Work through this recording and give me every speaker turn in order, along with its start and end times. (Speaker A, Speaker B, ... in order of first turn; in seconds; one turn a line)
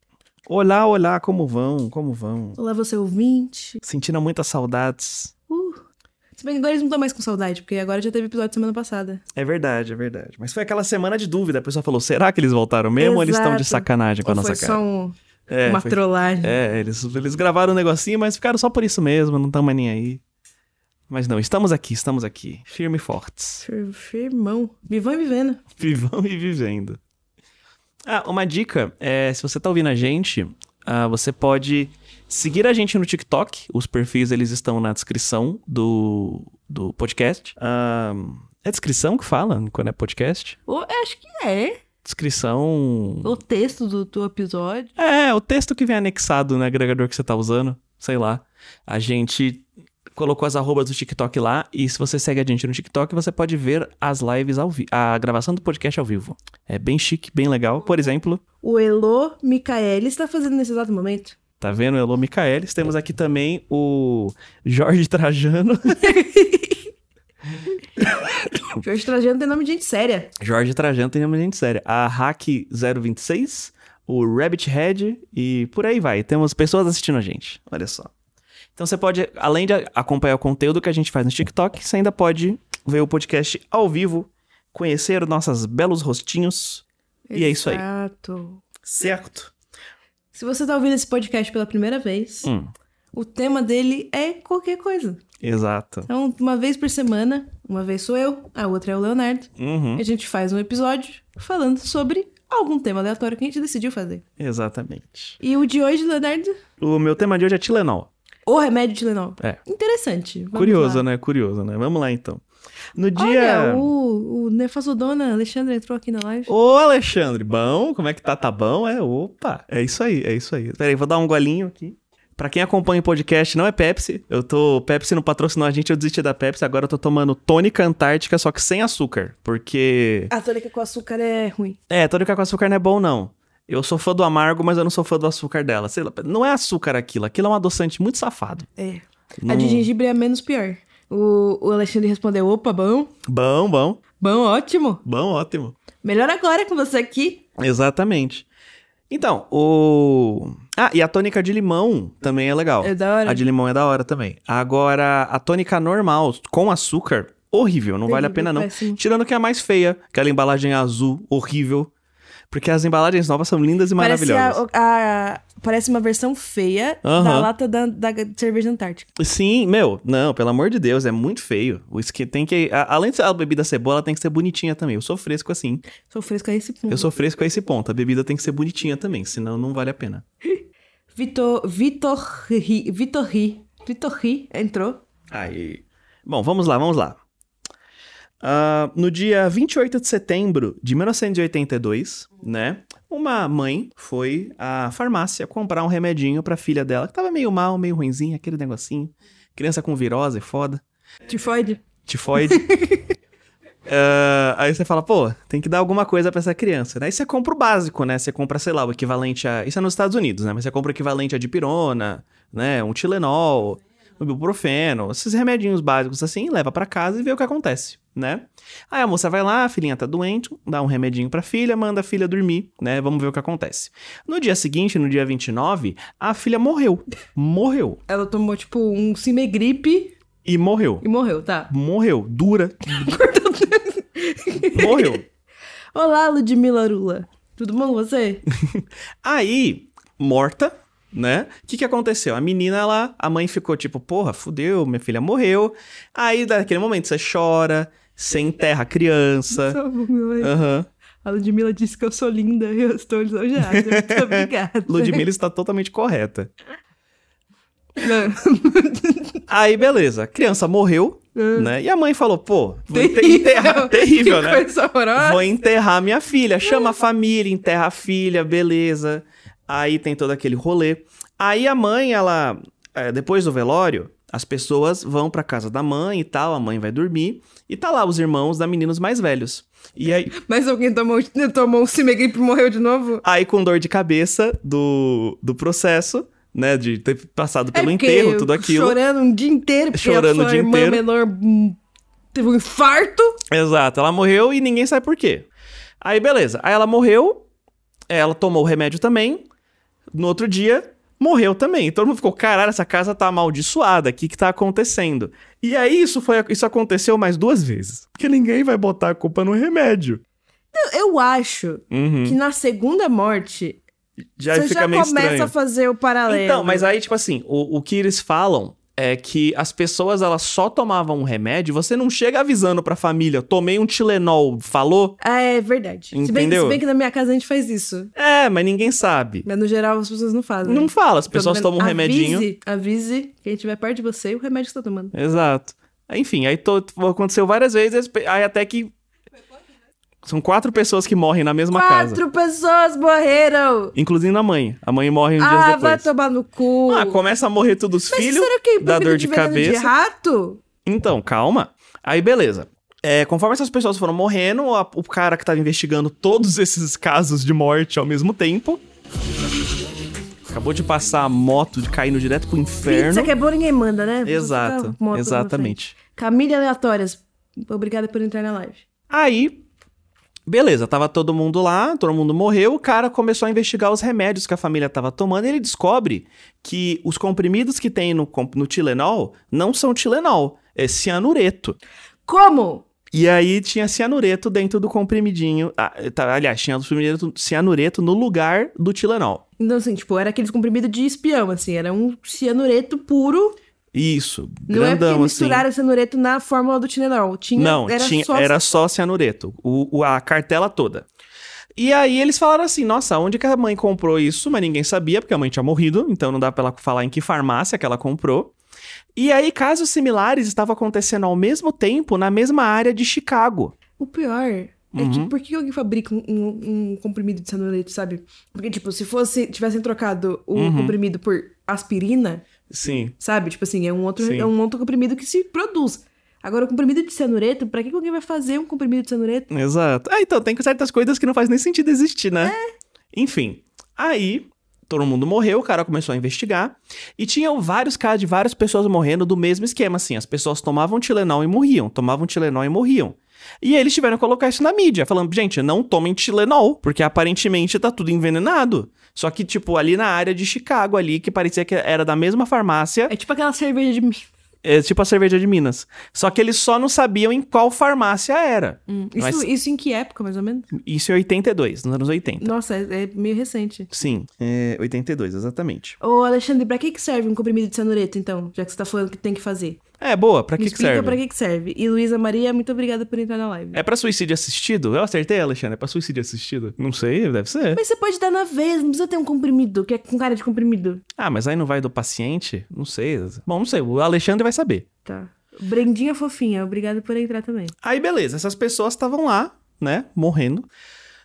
Speaker A: 0.5-2.6
Speaker B: 2.6-3.8
Speaker A: 3.8-5.3
Speaker B: 5.5-5.8
Speaker B: 6.3-9.2
Speaker A: 9.3-14.8
Speaker B: 13.0-16.6
Speaker A: 15.5-20.2
Speaker A: 21.1-23.6
Speaker B: 23.6-25.6
Speaker A: 25.8-27.0
Speaker A: 28.1-40.6
Speaker B: 40.7-41.8
Speaker A: 42.0-43.4
Speaker B: 43.2-44.9
Speaker A: 45.0-58.4
Speaker B: 58.6-61.4
Speaker A: 61.6-66.2
Speaker B: 66.0-66.9
Speaker B: 68.0-70.3
Speaker A: 70.4-78.1
Speaker A: 78.8-87.8
Speaker B: 87.3-88.7
Speaker A: 88.9-89.5
Speaker B: 90.3-92.5
Speaker A: 92.4-92.7
Speaker B: 93.1-95.2
Speaker A: 95.4-96.1
Speaker B: 96.1-104.2
Speaker A: 99.6-100.0
Speaker A: 104.4-105.4
Speaker B: 105.4-106.6
Speaker A: 106.8-108.1
Speaker B: 108.5-111.1
Speaker A: 110.5-112.4
Speaker A: 113.0-113.9
Speaker B: 113.2-116.5
Speaker A: 116.5-130.3
Speaker B: 130.3-131.8
Speaker A: 131.9-138.7
Speaker B: 138.8-143.1
Speaker A: 139.4-139.9
Speaker A: 143.3-144.0
Speaker B: 144.2-145.0
Speaker A: 145.1-145.8
Speaker B: 146.0-147.4
Speaker A: 147.6-148.5
Speaker A: 149.1-161.9
Speaker B: 152.8-153.4
Speaker B: 158.1-159.0
Speaker A: 162.5-164.6
Speaker B: 164.0-169.1
Speaker A: 167.0-167.5
Speaker A: 169.2-175.8
Speaker B: 176.1-177.1
Speaker A: 176.9-180.2
Speaker B: 181.1-185.0
Speaker A: 185.3-187.2
Speaker A: 188.4-200.8
Speaker B: 201.3-201.8
Speaker A: 202.1-202.6
Speaker B: 202.4-203.1
Speaker A: 203.9-228.0
Speaker B: 228.1-230.2
Speaker A: 230.4-231.0
Speaker B: 231.0-231.7
Speaker A: 231.7-232.9
Speaker B: 232.9-235.2
Speaker A: 234.8-235.2
Speaker B: 235.9-238.4
Speaker A: 238.7-249.8
Speaker B: 249.5-250.6
Speaker A: 250.4-250.9
Speaker B: 251.2-255.3
Speaker A: 253.6-256.5
Speaker B: 258.0-259.4
Speaker A: 259.5-280.3
Speaker B: 261.4-261.7
Speaker B: 262.9-265.5
Speaker B: 266.6-266.9
Speaker B: 280.3-283.2
Speaker A: 283.2-289.0
Speaker B: 287.7-291.8
Speaker A: 289.9-291.0
Speaker B: 292.3-293.4
Speaker A: 293.5-295.5
Speaker A: 296.0-297.5
Speaker A: 298.1-299.5
Speaker A: 300.1-310.2
Speaker B: 310.7-313.8
Speaker A: 311.9-312.4
Speaker A: 314.4-315.5
Speaker B: 314.5-316.9
Speaker A: 316.3-325.2
Speaker B: 325.2-328.1
Speaker A: 326.1-326.8
Speaker A: 328.2-329.5
Speaker B: 329.4-335.1
Speaker A: 330.6-332.5
Speaker A: 335.1-338.9
Speaker A: 340.2-342.2
Speaker B: 341.7-343.9
Speaker A: 343.9-346.1
Speaker B: 345.4-347.2
Speaker A: 346.9-349.9
Speaker B: 348.1-350.6
Speaker A: 350.9-358.8
Speaker A: 360.5-363.3
Speaker B: 362.8-368.9
Speaker A: 364.2-366.0
Speaker A: 369.1-369.6
Speaker A: 370.5-381.8
Speaker B: 382.3-382.9
Speaker A: 383.1-389.4
Speaker B: 389.6-393.6
Speaker A: 393.9-395.7
Speaker B: 394.7-398.6
Speaker A: 397.6-401.1
Speaker A: 401.8-408.6
Speaker A: 409.2-413.8
Speaker B: 414.0-422.4
Speaker A: 414.9-415.3
Speaker A: 420.6-421.0
Speaker A: 422.7-423.1
Speaker B: 423.2-429.5
Speaker A: 424.2-424.5
Speaker A: 429.5-432.5
Speaker B: 432.4-432.7
Speaker A: 433.1-453.1
Speaker B: 453.1-454.3
Speaker A: 454.6-459.5
Speaker B: 458.9-460.7
Speaker A: 460.7-462.5
Speaker B: 462.4-463.9
Speaker A: 463.9-466.0
Speaker B: 466.0-469.8
Speaker A: 470.0-471.2
Speaker B: 470.6-473.8
Speaker A: 473.7-477.8
Speaker B: 477.7-481.0
Speaker A: 481.2-484.9
Speaker B: 485.1-487.7
Speaker A: 487.8-490.7